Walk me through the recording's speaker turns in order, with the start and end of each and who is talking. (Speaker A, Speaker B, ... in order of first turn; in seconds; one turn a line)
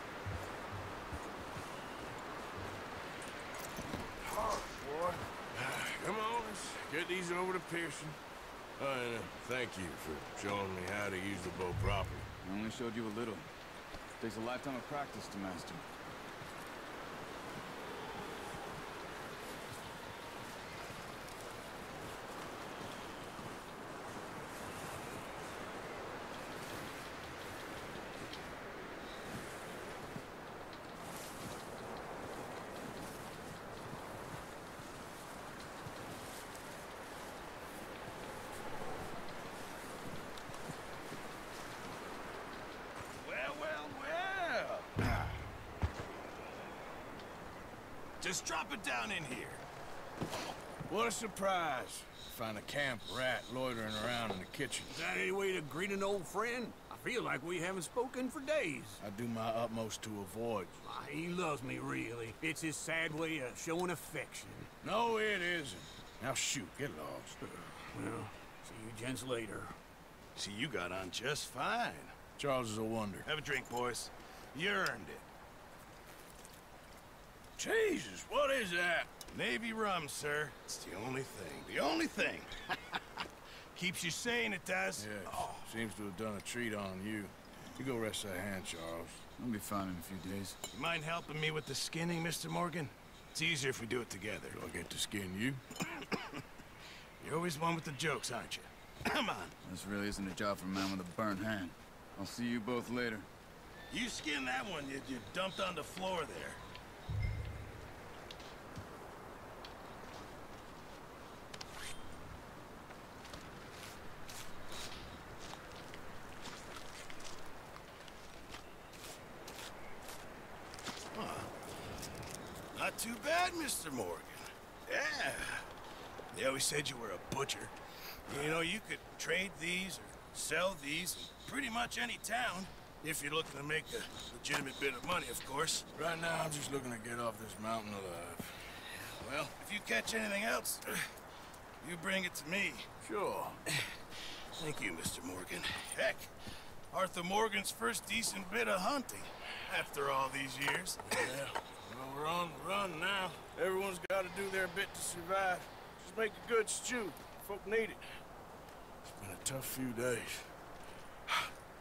Speaker A: 4.2-8.2
Speaker A: 8.8-12.2
Speaker B: 12.4-13.5
Speaker B: 14.2-15.8
Speaker C: 43.1-45.1
Speaker C: 48.2-49.6
Speaker A: 50.9-55.0
Speaker D: 54.9-59.0
Speaker A: 59.0-60.8
Speaker D: 60.8-64.7
Speaker A: 64.8-67.6
Speaker D: 67.8-69.8
Speaker C: 70.3-72.1
Speaker A: 72.4-73.2
Speaker C: 73.2-75.2
Speaker A: 77.6-79.1
Speaker C: 79.3-83.0
Speaker C: 83.7-85.5
Speaker A: 85.0-89.2
Speaker B: 89.4-90.6
Speaker C: 90.7-94.5
Speaker A: 94.5-95.6
Speaker C: 96.0-96.2
Speaker C: 97.2-99.5
Speaker B: 99.6-103.3
Speaker C: 103.9-106.6
Speaker C: 121.1-121.5
Speaker C: 122.7-125.7
Speaker C: 126.3-127.7
Speaker C: 128.3-135.9
Speaker A: 135.9-139.4
Speaker C: 139.3-141.1
Speaker C: 141.8-142.9
Speaker A: 143.0-143.6
Speaker C: 143.7-146.3
Speaker C: 146.9-151.2
Speaker A: 151.1-158.0
Speaker A: 159.0-160.5